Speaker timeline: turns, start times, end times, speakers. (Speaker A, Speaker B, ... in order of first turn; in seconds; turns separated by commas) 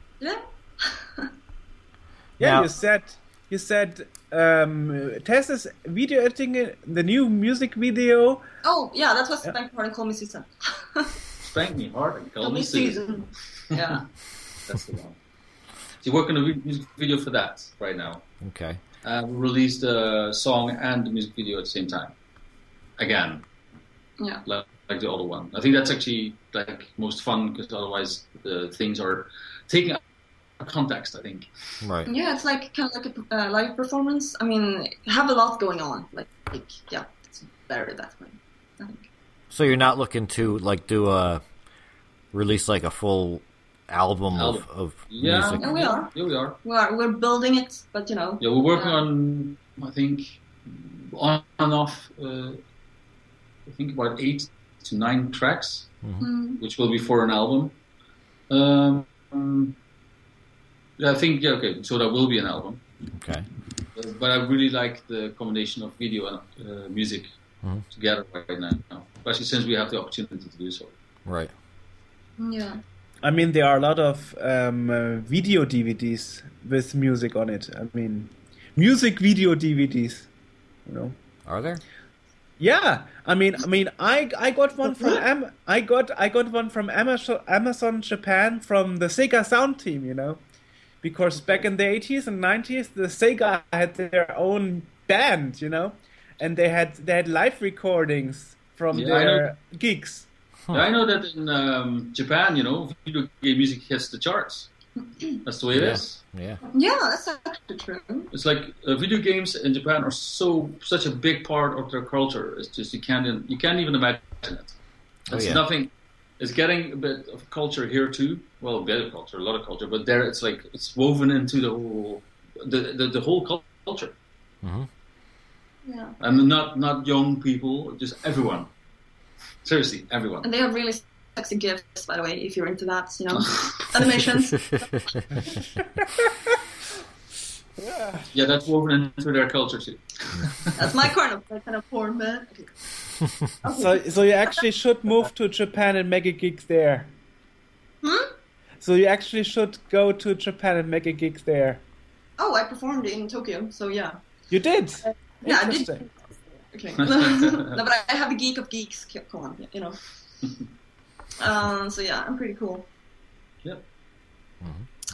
Speaker A: 0.2-1.3, Speaker B: 2.4-8.4, Speaker C: 2.4-2.7, Speaker A: 8.6-11.2, Speaker D: 11.4-13.1, Speaker A: 12.4-14.0, Speaker D: 14.6-15.2, Speaker D: 16.0-18.3, Speaker C: 18.4-18.8, Speaker D: 19.0-22.1, Speaker D: 23.0-23.4, Speaker D: 24.4-30.0, Speaker D: 30.6-31.5, Speaker C: 31.8-32.1, Speaker A: 32.1-39.1, Speaker C: 39.5-41.4, Speaker C: 42.3-45.7, Speaker D: 44.4-46.6, Speaker A: 45.6-49.0, Speaker D: 48.4-52.6, Speaker D: 53.7-56.0, Speaker A: 56.2-56.6, Speaker D: 56.6-57.8, Speaker D: 58.5-59.8, Speaker D: 61.0-62.8, Speaker C: 63.2-63.5, Speaker D: 64.0-67.3, Speaker D: 67.9-71.0, Speaker C: 71.2-71.5, Speaker A: 72.4-72.8, Speaker B: 73.2-80.3, Speaker B: 80.9-81.2, Speaker C: 81.5-81.8, Speaker B: 82.6-90.4, Speaker B: 91.0-100.3, Speaker D: 98.9-99.5, Speaker D: 100.7-104.7, Speaker D: 105.4-106.2, Speaker C: 105.7-106.6, Speaker A: 106.7-108.3, Speaker D: 108.3-114.8, Speaker C: 115.3-115.6, Speaker D: 115.3-124.2, Speaker C: 124.6-124.9, Speaker A: 125.8-126.2, Speaker D: 126.2-128.7, Speaker D: 129.6-130.5, Speaker A: 130.4-135.1, Speaker D: 133.4-134.2, Speaker B: 137.8-138.3, Speaker D: 138.3-140.9, Speaker C: 140.3-140.9, Speaker A: 140.8-144.6, Speaker B: 143.7-147.1, Speaker A: 148.0-148.3, Speaker B: 148.8-151.8, Speaker A: 152.4-154.2, Speaker B: 154.5-156.1, Speaker A: 155.0-160.0, Speaker D: 157.0-157.8, Speaker A: 161.4-162.9, Speaker C: 164.6-164.9